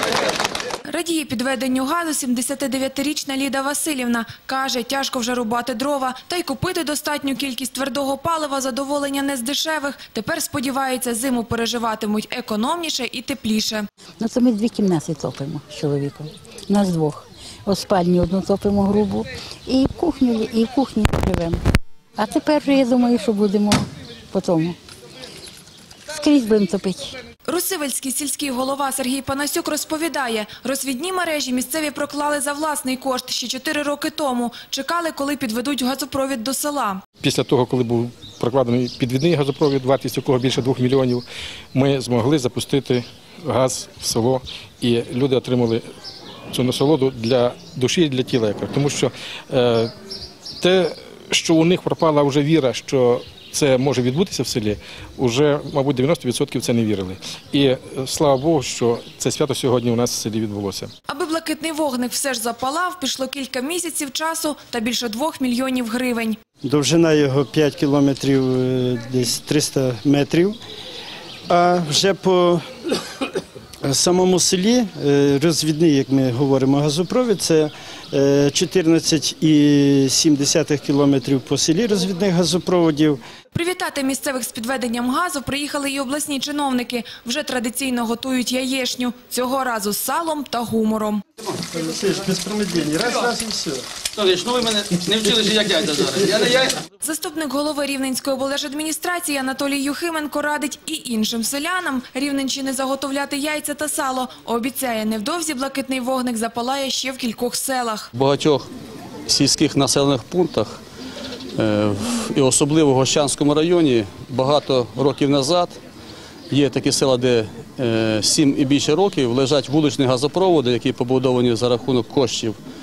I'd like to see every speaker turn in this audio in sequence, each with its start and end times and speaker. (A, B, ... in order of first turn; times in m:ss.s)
0:00.8-0:13.9 A
0:14.2-0:21.6 B
0:22.2-0:24.8 B
0:26.1-0:27.2 B
0:27.5-0:37.0 A
0:37.2-0:45.8 C
0:46.5-0:49.9 C
0:50.6-1:00.9 C
1:01.1-1:06.4 A
1:06.6-1:10.6 D
1:11.5-1:12.6 D
1:13.8-1:23.2 D
1:23.5-1:31.2 A
1:31.7-1:33.9 D
1:34.2-1:36.8 E
1:37.0-1:48.1 A
1:48.1-1:48.7 E
1:49.3-1:50.8 E
1:51.6-1:55.8 E
1:56.5-2:02.6 E